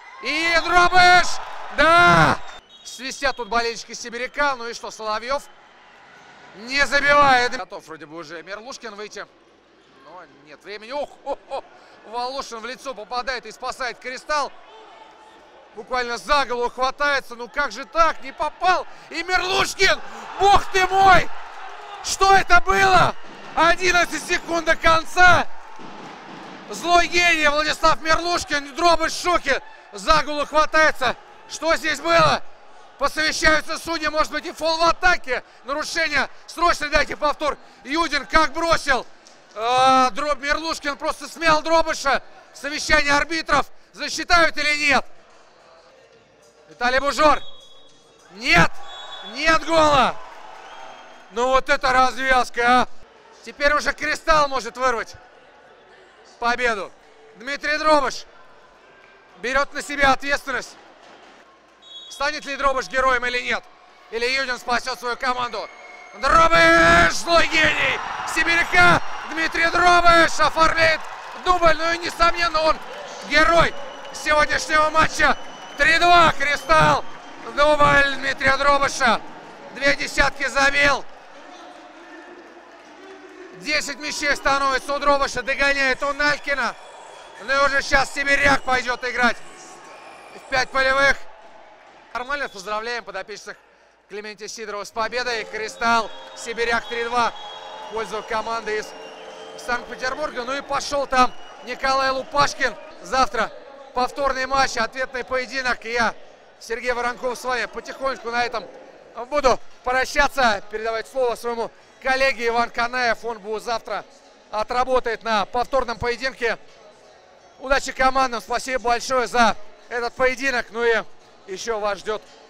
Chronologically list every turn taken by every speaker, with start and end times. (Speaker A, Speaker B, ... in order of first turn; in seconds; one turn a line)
Speaker A: 0.2-5.5
Speaker A: 6.5-9.3
Speaker A: 9.9-14.5
Speaker A: 15.7-21.3
Speaker A: 22.0-25.5
Speaker A: 26.7-32.4
Speaker A: 33.0-45.1
Speaker A: 46.7-47.4
Speaker A: 48.3-50.2
Speaker A: 51.3-52.9
Speaker A: 53.4-55.2
Speaker A: 56.4-58.2
Speaker A: 59.4-60.8
Speaker A: 62.1-81.0
Speaker A: 83.5-86.8
Speaker A: 87.4-89.4
Speaker A: 90.3-91.3
Speaker A: 92.1-97.3
Speaker A: 97.9-98.9
Speaker A: 99.5-116.6
Speaker A: 117.6-122.2